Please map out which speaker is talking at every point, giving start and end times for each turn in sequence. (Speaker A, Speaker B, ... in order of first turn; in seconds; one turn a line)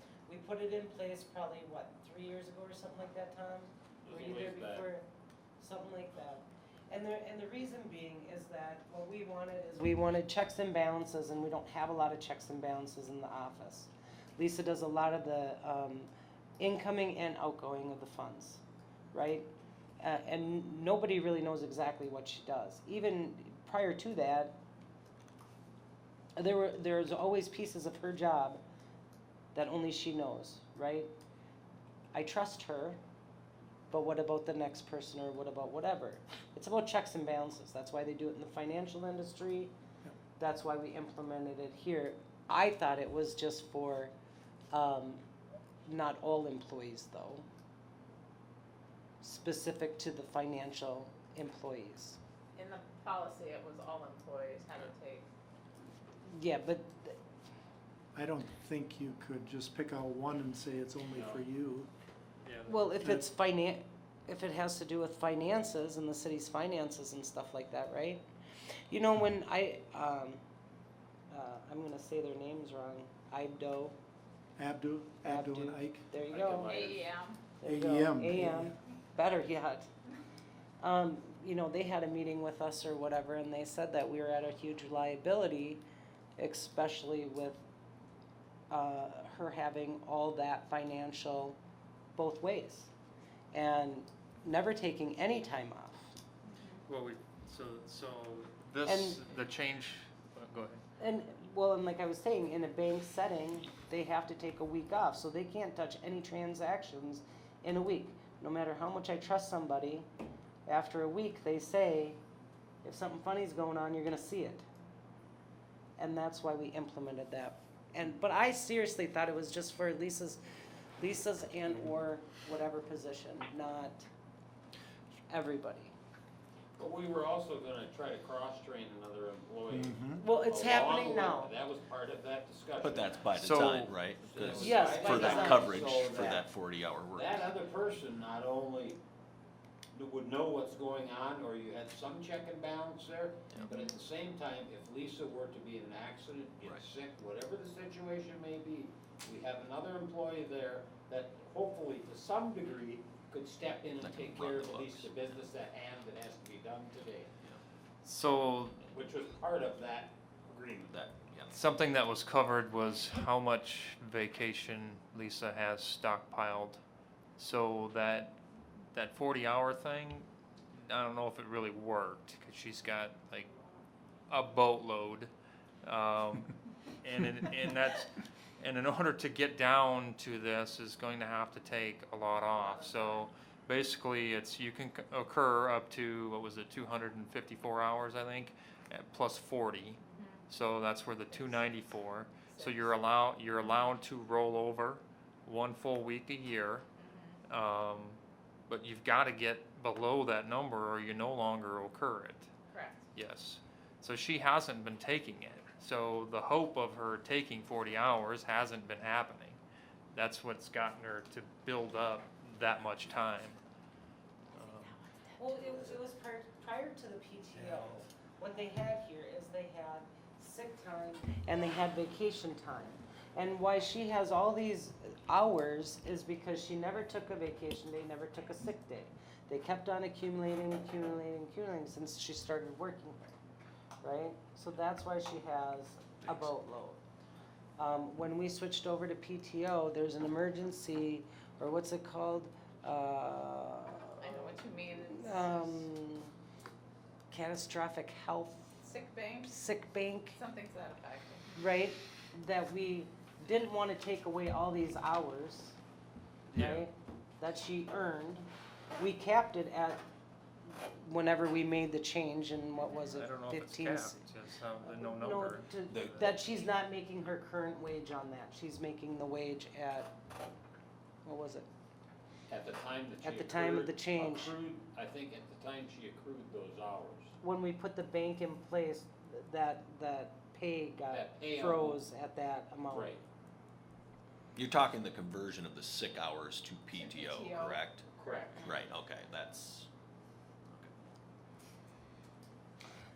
Speaker A: 0.3-5.0
Speaker B: 4.0-4.9
Speaker A: 5.6-18.6
Speaker A: 19.1-19.5
Speaker A: 20.0-24.6
Speaker A: 26.4-28.6
Speaker A: 29.5-31.1
Speaker A: 32.1-33.0
Speaker A: 33.9-39.7
Speaker A: 40.4-44.1
Speaker A: 44.7-45.2
Speaker A: 45.9-47.5
Speaker A: 49.2-52.2
Speaker C: 52.5-55.3
Speaker A: 56.3-57.2
Speaker D: 58.1-61.9
Speaker E: 62.5-63.0
Speaker A: 62.7-68.2
Speaker A: 68.9-70.4
Speaker A: 71.3-74.0
Speaker D: 74.6-76.1
Speaker A: 75.2-76.7
Speaker B: 76.3-77.2
Speaker C: 76.6-77.4
Speaker A: 77.6-79.9
Speaker D: 77.7-78.8
Speaker A: 80.8-85.8
Speaker A: 86.4-87.6
Speaker A: 88.7-91.6
Speaker A: 92.2-92.9
Speaker A: 93.5-96.1
Speaker C: 96.5-96.8
Speaker E: 96.9-100.8
Speaker A: 98.8-99.2
Speaker A: 101.0-110.1
Speaker A: 110.7-112.2
Speaker A: 112.8-114.6
Speaker A: 116.0-120.4
Speaker A: 121.0-124.1
Speaker A: 125.3-125.9
Speaker B: 126.8-133.3
Speaker D: 129.7-130.2
Speaker A: 130.2-131.5
Speaker F: 132.8-137.5
Speaker E: 133.3-134.0
Speaker B: 134.2-136.5
Speaker A: 134.6-136.3
Speaker B: 137.2-139.0
Speaker B: 139.9-157.3
Speaker F: 154.0-155.4
Speaker E: 158.0-158.8
Speaker B: 158.9-161.0
Speaker F: 160.9-161.6
Speaker E: 161.5-166.8
Speaker E: 167.4-168.4
Speaker E: 168.9-173.5
Speaker E: 174.3-175.3
Speaker E: 175.8-196.8
Speaker C: 182.5-183.3
Speaker C: 190.1-190.4
Speaker C: 191.3-191.9
Speaker C: 192.5-193.2
Speaker C: 197.0-197.4
Speaker E: 197.5-202.5
Speaker C: 202.7-203.1
Speaker E: 203.2-209.6
Speaker E: 210.1-213.6
Speaker E: 214.6-214.9
Speaker A: 215.4-233.2
Speaker A: 234.0-237.0
Speaker A: 237.8-246.3
Speaker C: 244.2-245.9
Speaker A: 247.3-248.8
Speaker C: 248.8-249.5
Speaker A: 249.4-250.4
Speaker C: 250.3-251.6
Speaker A: 251.6-255.8
Speaker A: 256.5-258.5
Speaker E: 256.6-256.8
Speaker A: 259.0-260.0
Speaker A: 260.7-264.3
Speaker E: 263.1-266.3
Speaker A: 264.8-270.1
Speaker F: 265.9-266.4
Speaker A: 271.2-271.7
Speaker B: 272.5-277.3
Speaker A: 273.2-274.5
Speaker A: 277.4-283.1
Speaker B: 281.1-282.0
Speaker B: 282.9-283.2
Speaker F: 284.6-288.1
Speaker C: 287.0-287.8
Speaker B: 288.2-288.7
Speaker F: 288.6-289.9